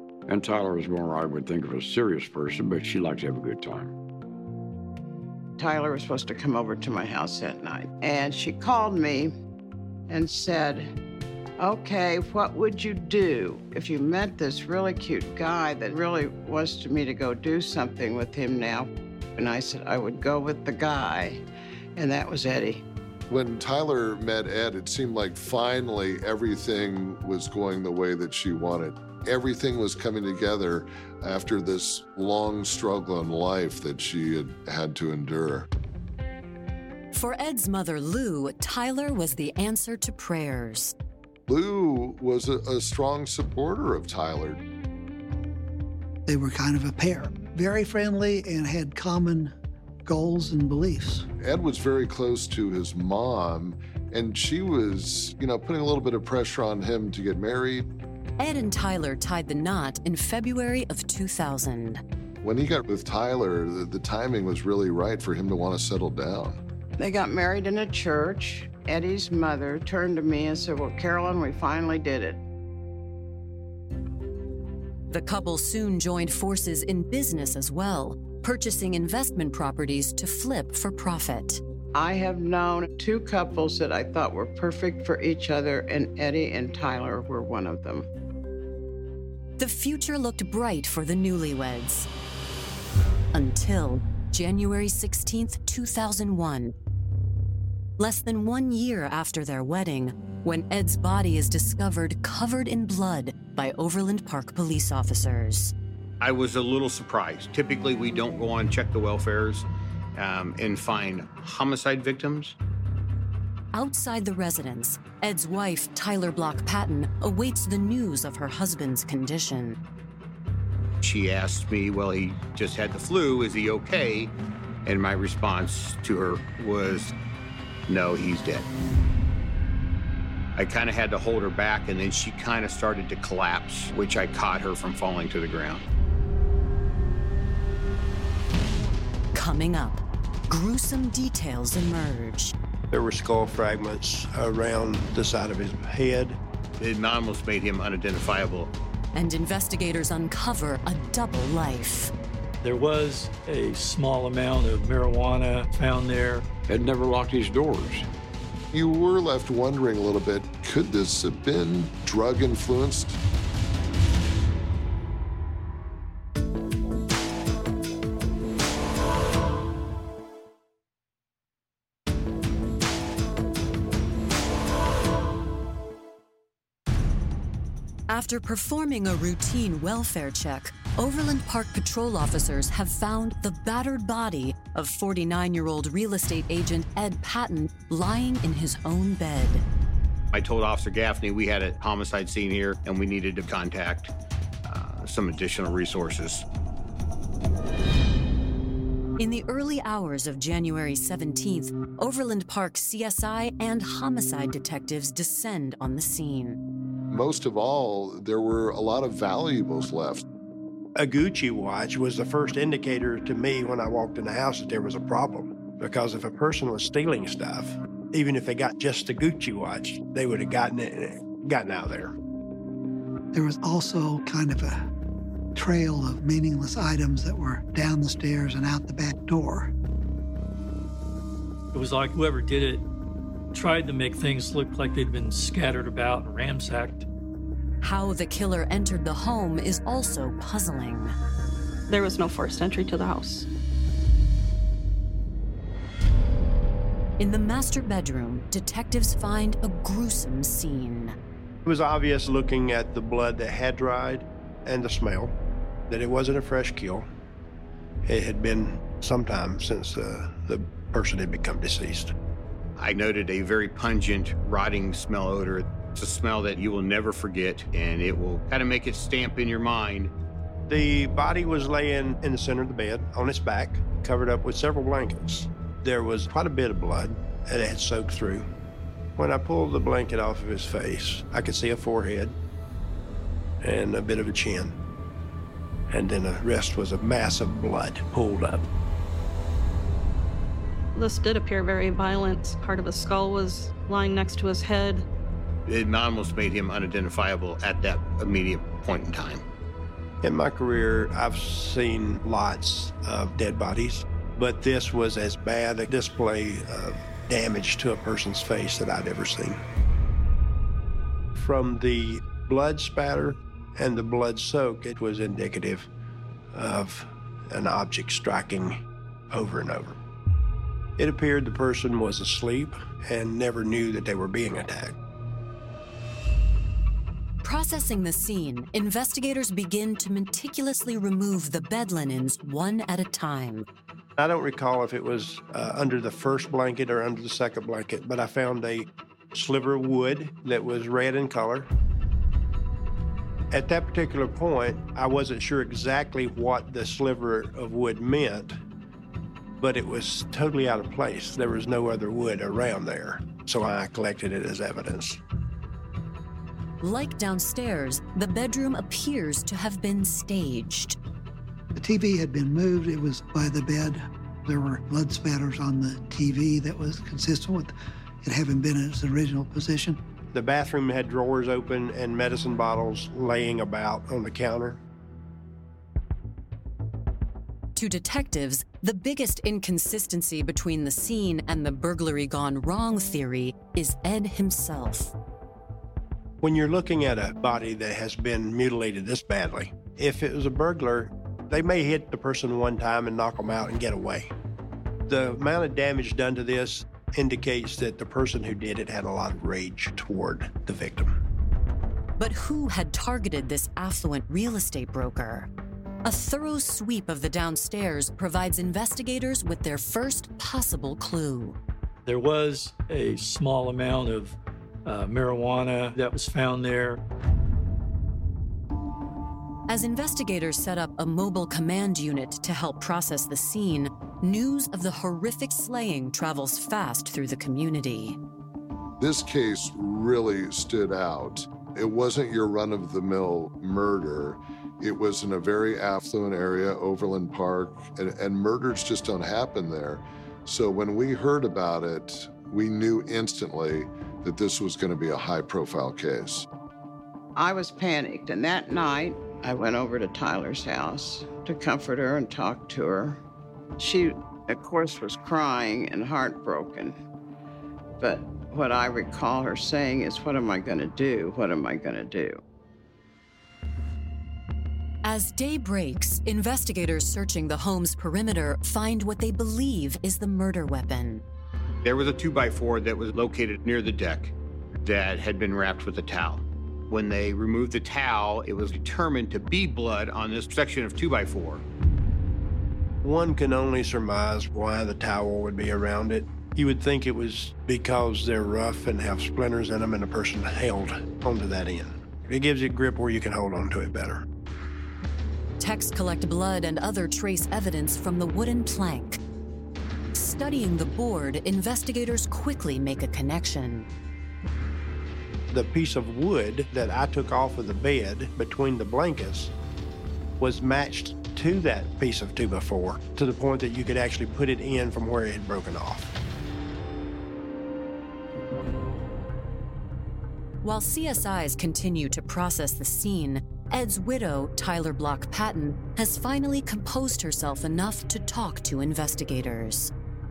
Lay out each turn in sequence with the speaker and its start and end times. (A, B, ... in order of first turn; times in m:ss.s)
0:00.3-0:03.9 A
0:05.6-0:09.3 B
0:10.1-0:10.9 B
0:11.6-0:21.4 B
0:22.0-0:22.8 B
0:23.3-0:35.7 C
0:37.1-0:40.9 D
0:41.5-0:44.6 C
0:46.2-0:49.5 E
0:50.0-0:51.3 E
0:51.4-0:57.9 C
0:58.4-1:02.0 D
1:02.4-1:06.6 C
1:07.0-1:12.4 B
1:15.1-1:21.6 D
1:21.9-1:28.1 B
1:29.6-1:32.1 D
1:33.3-1:36.7 D
1:38.0-1:45.7 D
1:46.2-1:52.5 F
1:53.7-1:59.8 D
2:01.0-2:04.3 F
2:04.8-2:07.1 F
2:07.9-2:08.6 F
2:10.6-2:15.8 F
2:19.3-2:22.5 D
2:22.9-2:26.4 G
2:26.8-2:28.7 F
2:29.1-2:32.1 D
2:32.6-2:36.4 H
2:36.7-2:38.1 A
2:38.7-2:43.2 C
2:58.1-3:09.6 D
3:10.3-3:14.1 F
3:14.6-3:16.4 F
3:19.2-3:26.6 D
3:27.1-3:30.2 C
3:31.0-3:42.1 G
3:43.3-3:44.8 E
3:45.5-3:49.7 E
3:51.7-3:52.8 H
3:53.5-3:57.1 H
3:57.8-4:01.1 D
4:01.9-4:03.5 I
4:07.2-4:11.2 D
4:11.6-4:15.3 G
4:15.9-4:17.1 G
4:18.0-4:22.1 G
4:22.8-4:30.1 F
4:30.7-4:38.5 G
4:39.2-4:42.3 G
4:43.6-4:44.8 G
4:45.9-4:48.6 G
4:50.9-4:55.0 I
4:55.6-4:59.4 F
5:00.2-5:09.6 G
5:11.3-5:15.9 G
5:16.5-5:18.8 G
5:19.3-5:20.0 G
5:21.0-5:25.0 G
5:27.4-5:33.6 D
5:34.2-5:41.7 G
5:43.5-5:48.6 G
5:49.6-5:55.2 G
5:56.8-6:01.0 D
6:01.7-6:10.0 E
6:10.3-6:14.8 G
6:17.7-6:25.1 D
6:26.4-6:34.3 G
6:35.1-6:41.2 G
6:42.2-6:45.5 D
6:46.0-6:51.6 D
6:52.0-6:57.0 H
6:59.7-7:08.2 D
7:09.0-7:26.4 C
7:27.3-7:33.2 B
7:33.8-7:37.0 B
7:38.0-7:42.4 B
7:45.0-7:51.2 D
7:51.8-8:01.6 F
8:03.0-8:14.2 G
8:15.6-8:19.2 D
8:20.1-8:23.9 D
8:25.5-8:29.5 G
8:30.4-8:36.1 G
8:40.6-8:49.9 D